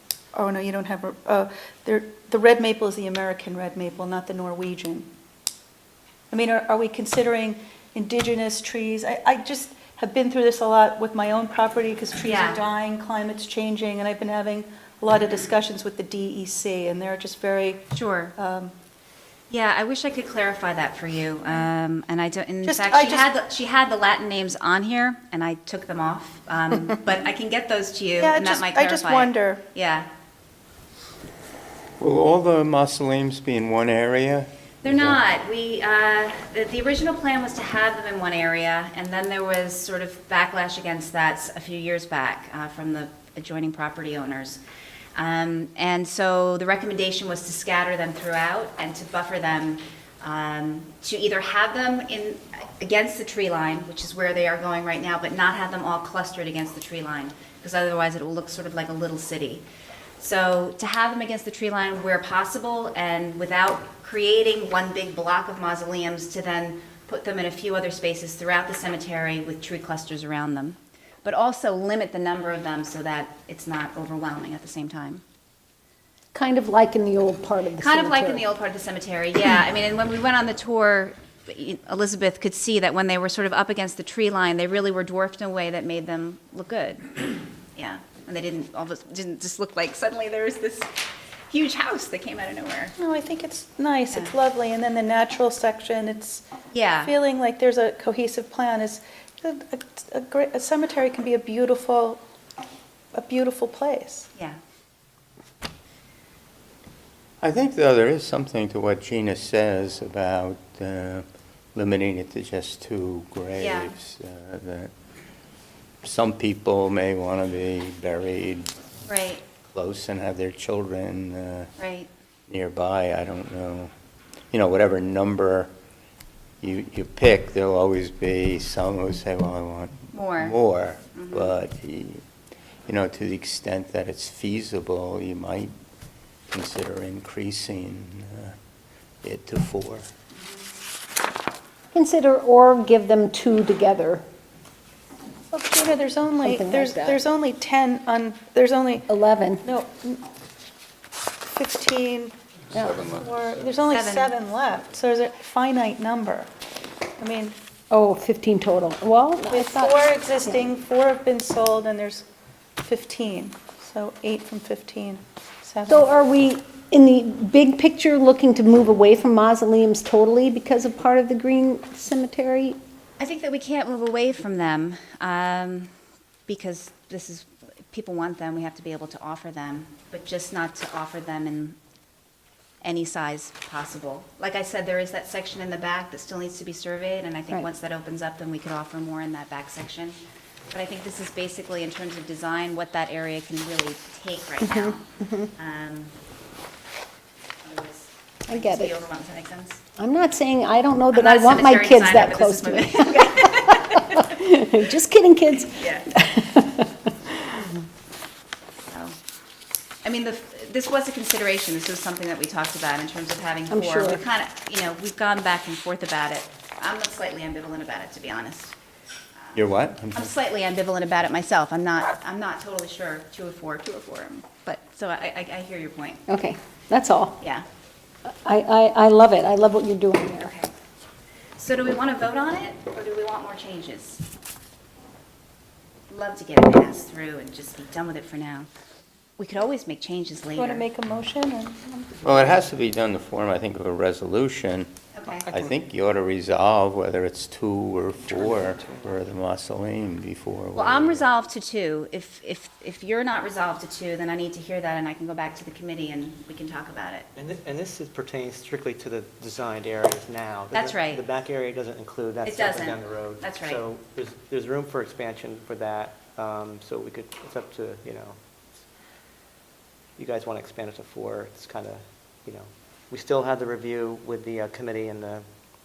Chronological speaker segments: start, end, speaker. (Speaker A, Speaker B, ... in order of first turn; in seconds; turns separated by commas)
Speaker A: 0.3-5.1, Speaker A: 6.3-18.7, Speaker B: 12.2-12.6, Speaker B: 17.9-18.3, Speaker B: 19.5-30.1, Speaker A: 22.6-23.3, Speaker A: 28.2-29.6, Speaker C: 32.0-35.2, Speaker B: 34.8-44.6, Speaker B: 45.1-59.6, Speaker B: 60.2-75.2, Speaker D: 76.3-78.5, Speaker B: 77.8-90.9, Speaker B: 91.5-92.9, Speaker A: 93.0-96.4, Speaker B: 96.7-97.1, Speaker A: 97.0-102.2, Speaker A: 103.1-104.3, Speaker C: 107.4-114.9, Speaker B: 113.5-113.9, Speaker C: 116.0-118.7, Speaker B: 119.1-119.4, Speaker C: 119.7-121.7, Speaker B: 121.8-122.1, Speaker C: 122.5-123.9, Speaker C: 124.5-125.7, Speaker C: 126.6-132.2, Speaker B: 130.1-130.6, Speaker B: 131.1-131.6, Speaker C: 132.9-135.7, Speaker C: 136.5-138.5, Speaker C: 139.2-140.1, Speaker D: 141.9-144.2, Speaker A: 145.5-149.1, Speaker D: 146.4-147.2, Speaker D: 149.1-149.6, Speaker A: 149.6-150.2, Speaker A: 151.5-152.3, Speaker D: 152.7-153.1, Speaker A: 152.9-156.5, Speaker B: 153.8-154.3, Speaker A: 157.2-157.6, Speaker D: 157.9-160.7, Speaker A: 159.4-162.2, Speaker A: 162.8-166.1, Speaker D: 165.9-172.8, Speaker B: 173.2-175.9, Speaker B: 176.5-181.8, Speaker B: 182.8-190.2, Speaker B: 190.7-196.1, Speaker D: 194.6-195.5, Speaker B: 197.6-199.8, Speaker D: 198.5-198.9, Speaker D: 200.0-207.7, Speaker B: 201.1-204.3, Speaker B: 205.6-206.1, Speaker B: 208.9-209.1, Speaker B: 210.0-218.7, Speaker D: 213.7-214.2, Speaker C: 219.5-220.3, Speaker B: 220.1-226.2, Speaker D: 226.3-227.4, Speaker B: 227.4-227.6, Speaker D: 228.3-230.5, Speaker B: 230.4-230.7, Speaker B: 231.6-234.2, Speaker B: 236.1-238.7, Speaker B: 239.4-240.8, Speaker A: 240.6-242.3, Speaker C: 242.2-251.3, Speaker B: 245.1-245.5, Speaker E: 248.2-249.2, Speaker B: 250.7-257.3, Speaker E: 257.3-268.4, Speaker B: 260.7-261.2, Speaker B: 262.4-263.8, Speaker E: 270.2-275.4